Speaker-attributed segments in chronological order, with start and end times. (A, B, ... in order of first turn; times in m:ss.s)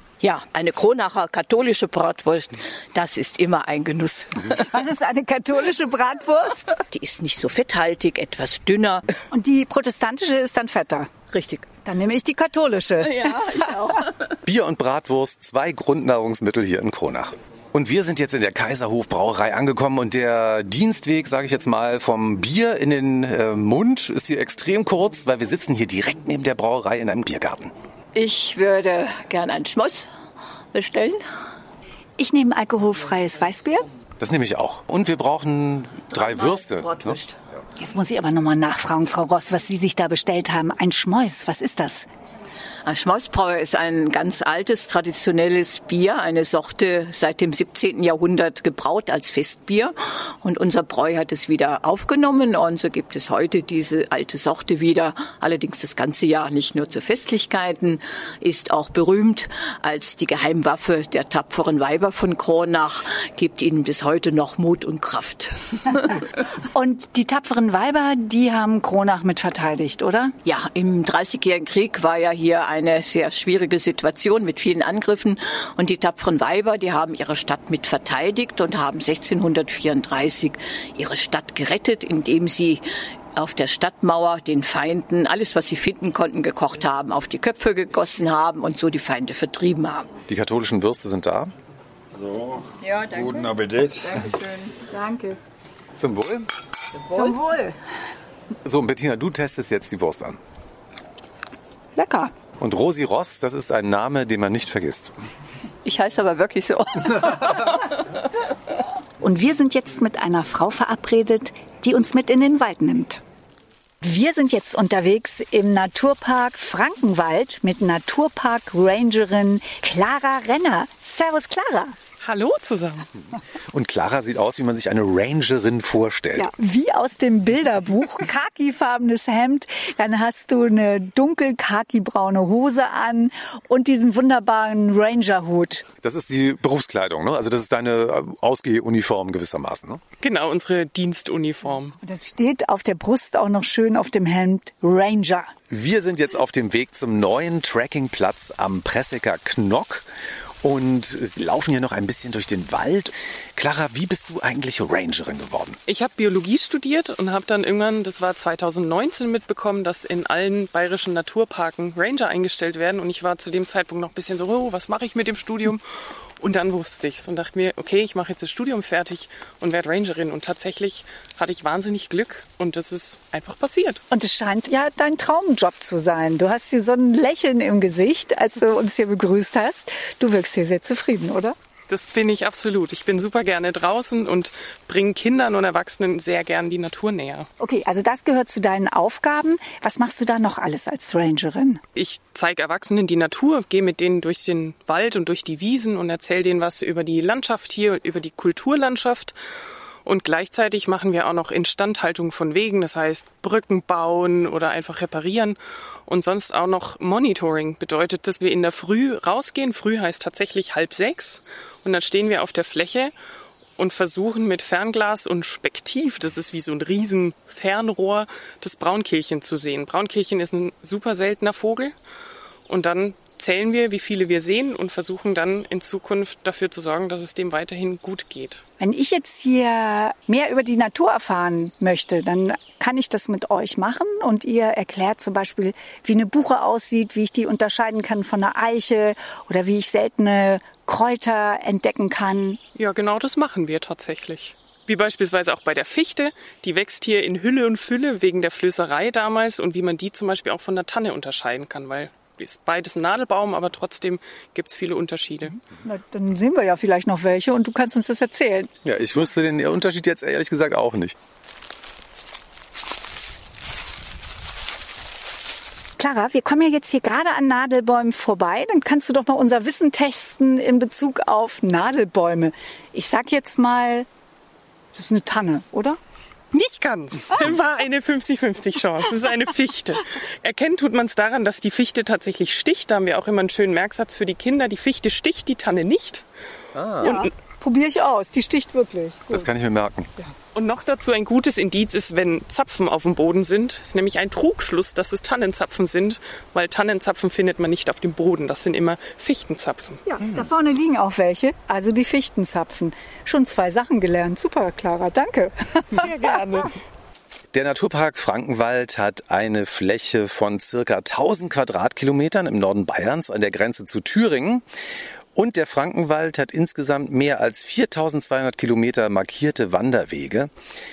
0:00.2-0:04.6 A
0:04.6-0:06.8 B
0:06.9-0:09.1 A
0:09.3-0:11.1 B
0:11.3-0:11.7 A
0:11.8-0:13.4 B
0:13.0-0:14.4 A
0:14.4-0:27.7 C
0:28.1-0:30.1 A
0:30.7-0:31.2 A
0:32.2-0:33.9 B
0:34.2-0:37.2 C
0:36.1-0:37.4 A
0:37.8-0:42.1 B
0:42.8-1:06.2 A
1:06.6-1:10.4 B
1:10.4-1:22.8 A
1:23.4-1:30.1 A
1:30.3-1:31.5 C
1:32.1-1:34.3 D
1:32.8-1:34.7 A
1:34.9-1:35.4 B
1:36.0-1:36.5 C
1:37.1-1:37.4 A
1:37.1-1:37.8 B
1:38.6-1:40.4 C
1:42.0-1:42.3 B
1:42.6-1:45.1 C
1:45.8-1:48.0 A
1:49.2-1:53.2 B
1:54.0-2:02.0 B
2:02.2-2:03.1 E
2:03.7-2:06.5 C
2:06.4-2:15.8 B
2:16.0-2:20.0 C
2:20.2-2:22.0 E
2:22.0-2:25.5 B
2:25.7-2:30.1 C
2:30.6-2:35.8 C
2:35.9-2:45.8 E
2:46.4-2:54.0 E
2:54.1-3:01.5 B
3:01.9-3:07.5 E
3:07.6-3:11.8 B
3:12.0-3:19.4 E
3:20.0-3:33.1 E
3:33.8-3:41.9 E
3:42.7-3:48.6 E
3:48.8-4:02.6 B
4:02.8-4:15.6 E
4:15.8-4:18.7 B
4:18.8-4:21.2 C
4:26.0-4:34.1 B
4:34.9-4:36.0 B
4:36.5-4:46.2 E
4:46.7-4:47.1 C
4:47.0-4:47.3 E
4:47.0-4:49.5 B
4:49.3-4:50.1 C
4:50.5-5:00.0 E
5:00.0-5:06.2 B
5:05.9-5:06.7 E
5:07.5-5:14.6 C
5:15.4-5:20.5 C